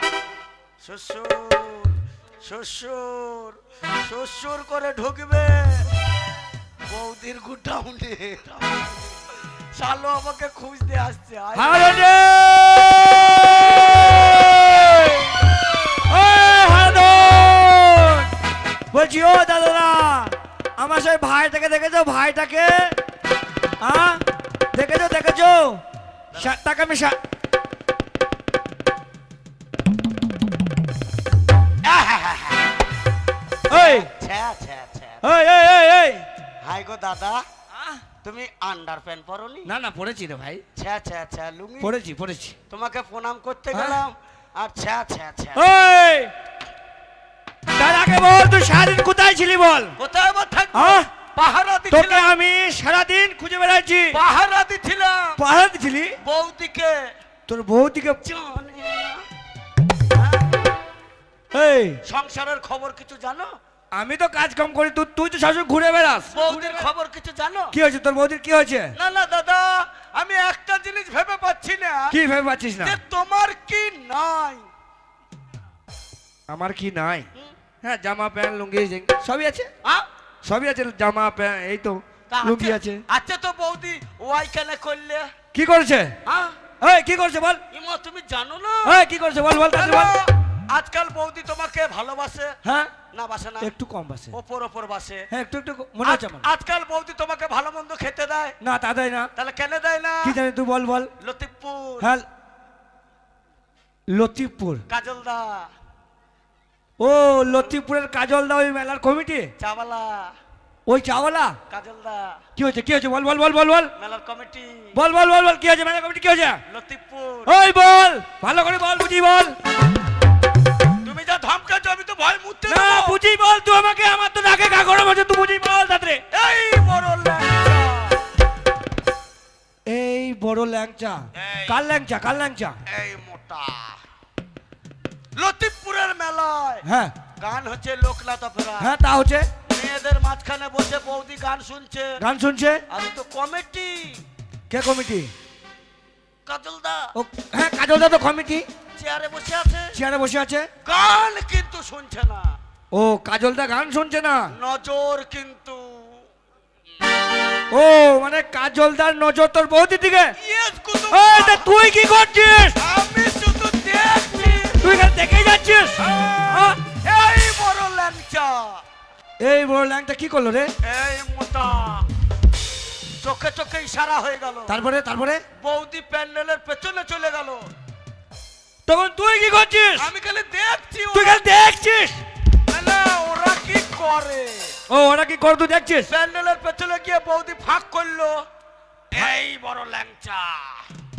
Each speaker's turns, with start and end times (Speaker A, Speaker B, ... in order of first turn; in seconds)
Speaker A: 0.8-5.8, 6.9-9.2, 9.8-12.0, 31.8-32.8, 33.7-35.2, 36.6-37.4, 38.2-39.7, 40.8-41.9, 42.7-45.6, 50.0-52.3, 54.1-55.4, 56.2-57.1, 58.2-59.2, 60.1-60.6, 62.0-63.6, 66.3-67.8, 69.0-72.2, 72.8-74.7, 82.3-85.3, 86.3-86.6, 87.7-89.0, 89.7-92.6, 93.1-93.7, 94.3-95.3, 96.0-98.6, 99.4-100.4, 101.2-102.1, 104.9-105.7, 109.6-110.3, 111.7-112.4, 114.0-115.0, 116.7-117.5, 121.0-123.2, 126.3-128.2, 131.3-131.8, 132.9-134.0, 135.4-136.9, 137.4-138.9, 139.7-142.2, 142.9-144.2, 146.5-147.2, 149.0-150.0, 150.8-152.6, 154.5-156.2, 160.4-161.7, 162.8-164.9, 166.0-168.8, 170.8-172.1, 173.2-174.8, 175.6-177.7, 180.0-181.4, 182.7-184.8, 186.1-188.4, 189.1-190.9
Speaker B: 11.6-15.5, 16.0-18.3, 18.9-23.0, 23.8-25.8, 26.4-27.2, 33.7-34.1, 35.2-36.3, 37.7-38.0, 39.6-40.6, 41.8-42.6, 43.7-44.0, 45.6-46.3, 47.8-50.0, 50.7-51.1, 51.9-54.2, 55.4-56.2, 57.5-58.2, 61.5-62.0, 63.9-66.9, 67.7-68.9, 72.1-73.0, 76.5-77.3, 77.8-79.7, 80.5-83.0, 85.5-86.1, 86.8-87.6, 88.8-90.2, 92.6-92.9, 93.6-94.4, 95.3-96.5, 98.6-99.3, 100.2-101.1, 102.0-102.3, 104.1-104.8, 107.0-109.5, 110.9-111.6, 112.6-113.9, 114.9-116.6, 117.5-119.6, 122.7-126.2, 129.9-132.8, 136.8-137.2, 138.8-139.5, 142.2-142.8, 144.7-145.3, 147.2-148.7, 149.9-150.7, 152.9-154.5, 157.7-160.3, 161.1-162.8, 164.8-166.1, 169.4-170.7, 174.7-175.4, 178.9-180.1, 181.1-182.2, 184.9-186.1